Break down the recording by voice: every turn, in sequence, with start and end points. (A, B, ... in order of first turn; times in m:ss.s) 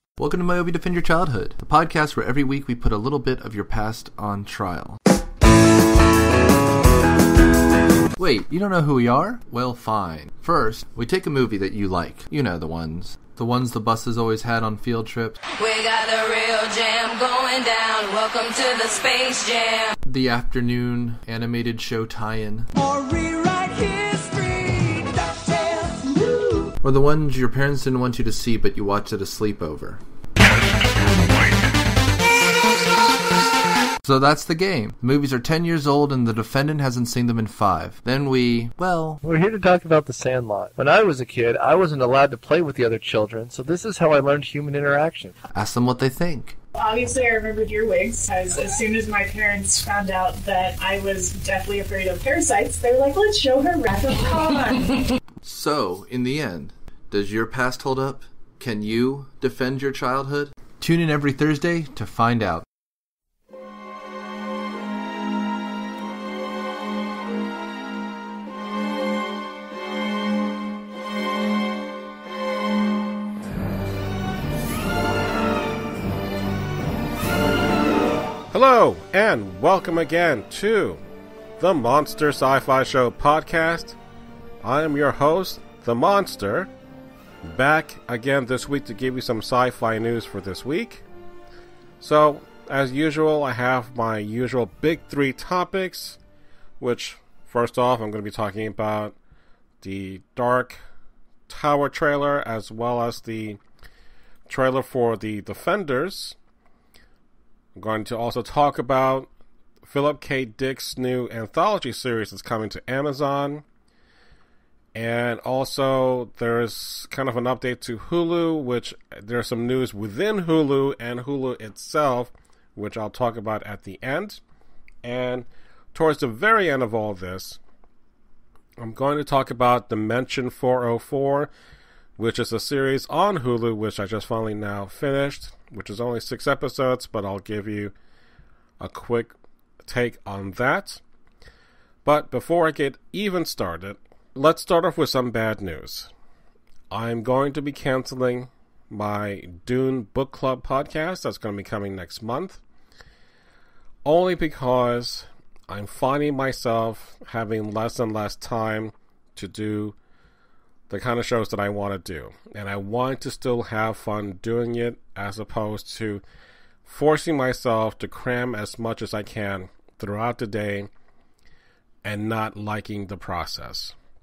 0:00.2-0:05.0 A
0:08.2-0:15.4 A
0:15.6-0:19.9 B
0:20.0-0:22.7 A
0:26.8-0:30.0 A
0:34.0-0:39.2 A
0:39.2-0:45.3 C
0:45.5-0:46.6 A
0:46.8-0:54.9 D
0:55.4-1:02.6 A
1:18.5-1:21.0 E
1:21.6-1:24.0 E
1:24.6-1:26.7 E
1:27.4-1:31.0 E
1:32.0-1:36.2 E
1:36.8-1:39.2 E
1:39.8-1:40.8 E
1:41.5-1:43.6 E
1:44.5-1:46.4 E
1:47.8-1:49.3 E
1:49.8-1:53.6 E
1:54.9-2:04.4 E
2:05.0-2:07.6 E
2:08.8-2:11.5 E
2:12.2-2:17.9 E
2:18.8-2:21.0 E
2:22.0-2:26.1 E
2:26.9-2:32.6 E
2:34.0-2:40.0 E
2:40.9-2:46.2 E
2:46.8-2:50.9 E
2:52.0-2:54.0 E